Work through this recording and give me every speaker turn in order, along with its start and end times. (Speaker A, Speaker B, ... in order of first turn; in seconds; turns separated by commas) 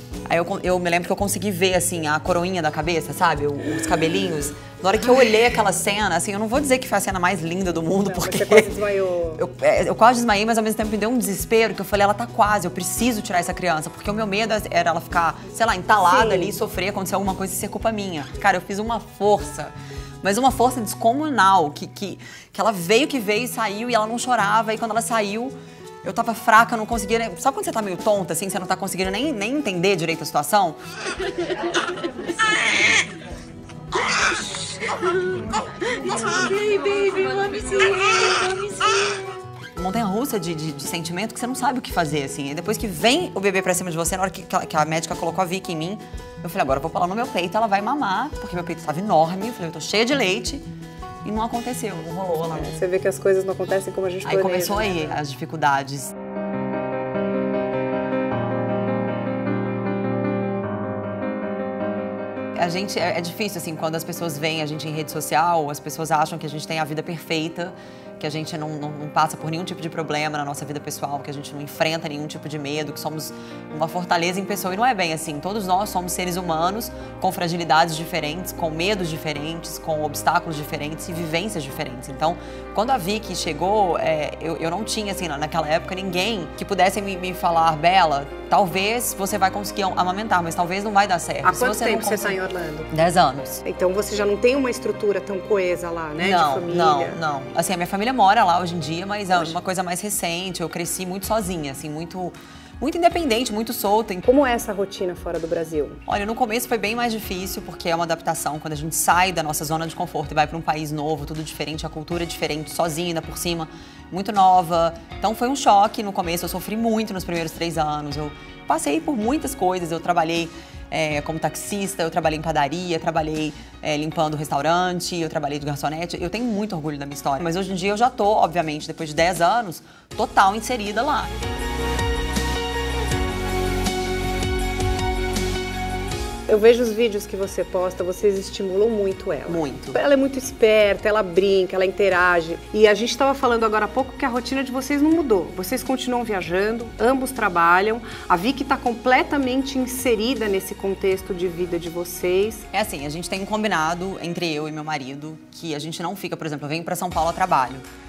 Speaker A: 0.3-8.8, Speaker B: 7.9-9.4, Speaker A: 9.3-30.8, Speaker B: 16.0-16.6, Speaker A: 34.1-50.6, Speaker A: 51.2-52.8, Speaker B: 52.5-55.2, Speaker A: 54.2-56.1, Speaker A: 62.5-92.4, Speaker B: 91.4-92.9, Speaker A: 92.9-93.6, Speaker B: 93.6-97.2, Speaker A: 96.2-104.2, Speaker B: 99.3-99.6, Speaker B: 104.2-106.0, Speaker A: 106.0-131.3, Speaker B: 136.5-152.7, Speaker A: 139.5-140.0, Speaker A: 152.7-157.8